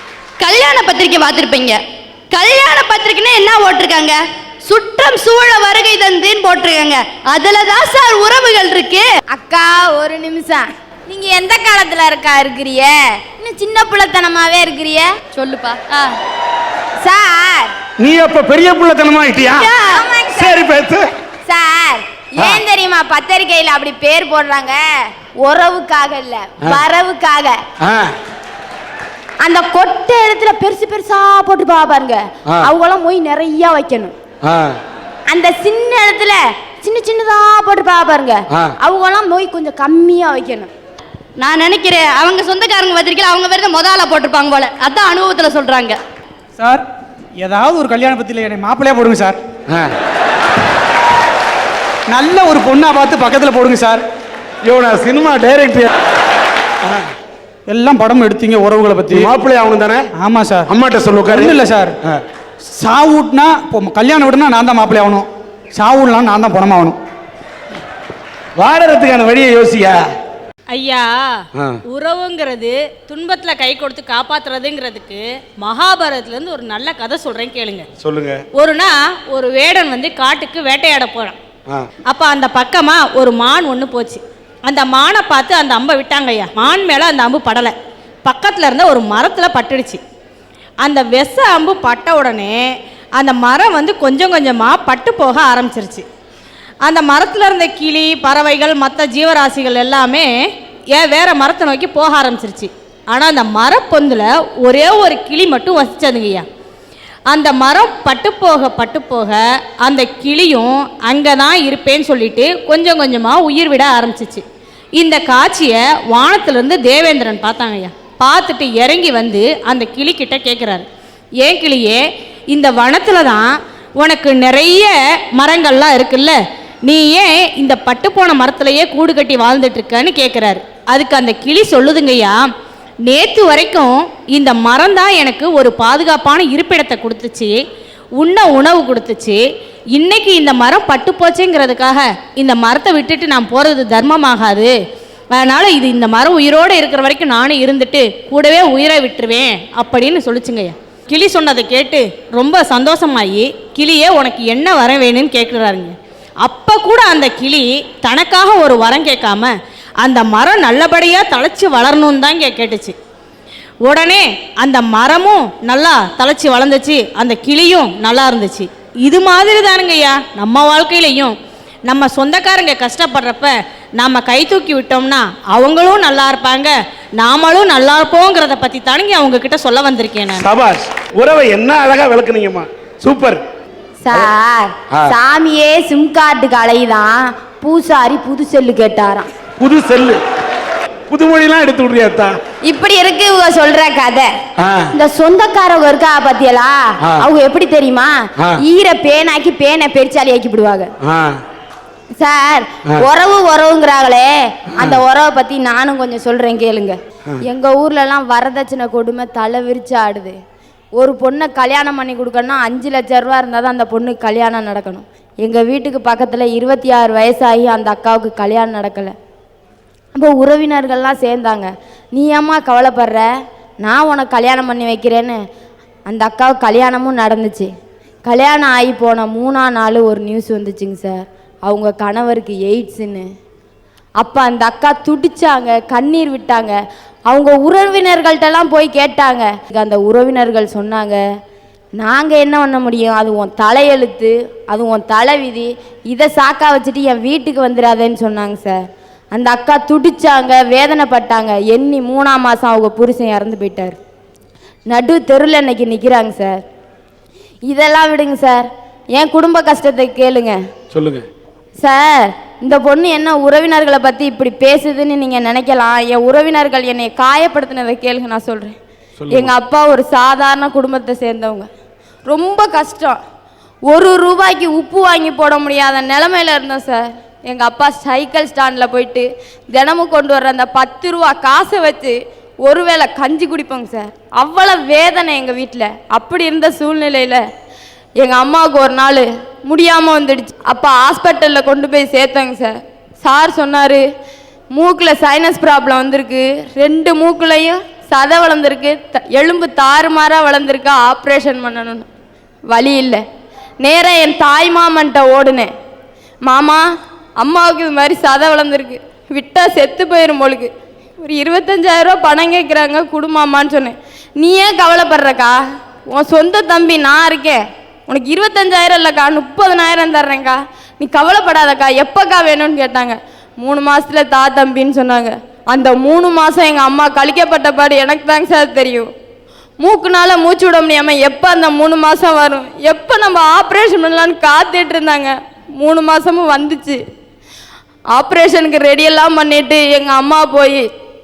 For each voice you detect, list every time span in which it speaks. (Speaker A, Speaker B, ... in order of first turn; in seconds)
Speaker A: 0.4-9.1, 41.4-46.0
Speaker B: 9.3-16.1, 17.0-17.7, 19.6-20.6, 21.5-24.9, 25.4-27.6, 29.4-34.1, 35.3-40.7, 184.0-189.3, 192.7-194.3, 194.9-198.1, 198.7-200.9, 202.2-210.3, 211.0-219.1, 220.1-223.2, 223.8-225.4, 226.1-227.7, 228.2-233.2, 234.2-236.8, 237.3-241.2, 242.0-248.8, 249.3-254.0, 254.9-256.6, 257.7-260.6, 261.8-268.7, 269.3-271.7, 272.3-273.2, 273.9-287.4, 288.2-294.0, 294.7-302.1, 302.7-303.2, 303.8-305.7, 306.4-306.8, 307.4-315.6, 316.1-329.1, 329.8-337.0, 338.1-340.9
Speaker C: 18.0-19.7, 20.3-21.0, 27.8-28.1, 34.4-34.7, 54.6-55.9, 59.1-60.0, 60.7-62.2, 68.6-70.0, 78.0-78.4, 180.3-183.4, 189.6-190.2, 191.1-192.3, 194.6-194.9, 201.0-201.4, 260.9-261.2, 269.2-269.5
Speaker D: 46.6-46.8, 47.4-49.4, 52.1-54.0, 57.7-59.3, 60.2-60.7, 61.3-61.9, 62.7-67.0
Speaker E: 70.7-71.2, 71.9-77.8, 78.5-81.4, 82.1-87.7, 88.2-90.0, 90.8-92.6, 93.2-96.0, 96.8-100.3, 100.9-106.4, 107.3-114.4, 115.0-120.8, 121.4-122.0, 122.5-126.3, 126.9-132.4, 133.1-137.6, 138.2-139.4, 139.9-144.7, 145.3-162.9, 163.8-171.3, 171.9-180.4